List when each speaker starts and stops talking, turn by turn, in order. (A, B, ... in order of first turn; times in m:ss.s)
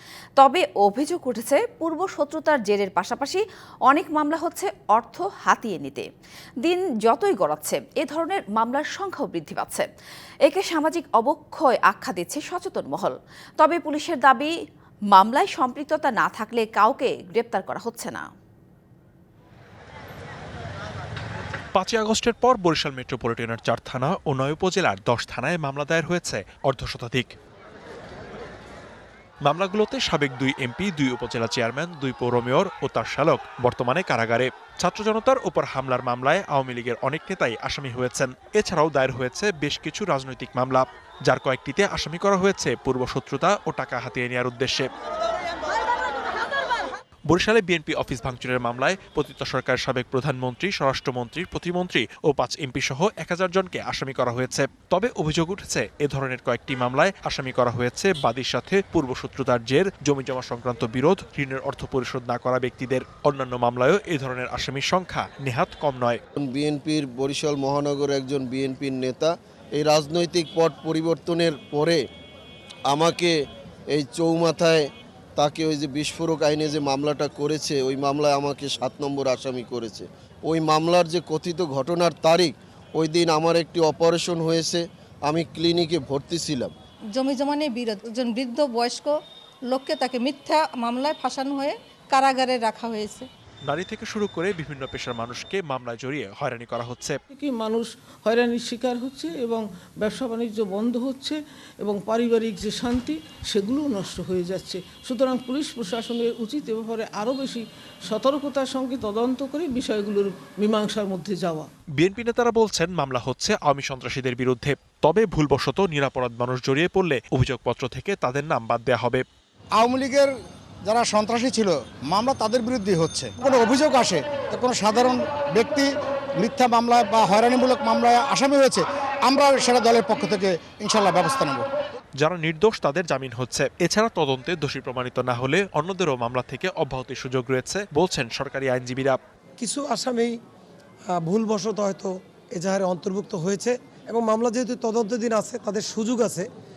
0:00.4-0:06.0 A
0:06.6-0:09.8 A
0:10.4-0:14.5 A
0:15.1-0:18.2 A
0:21.7-0:27.3 B
0:29.4-0:44.9 B
0:47.3-1:06.2 B
1:06.4-1:12.0 C
1:12.9-1:13.3 C
1:13.9-1:14.8 C
1:15.4-1:26.7 C
1:27.1-1:29.2 D
1:29.7-1:33.3 D
1:33.6-1:37.2 B
1:37.3-1:51.7 E
1:52.0-1:59.2 B
1:59.8-2:00.3 F
2:00.8-2:05.9 F
2:06.4-2:11.6 F
2:12.2-2:19.2 B
2:19.6-2:20.3 G
2:21.2-2:26.4 G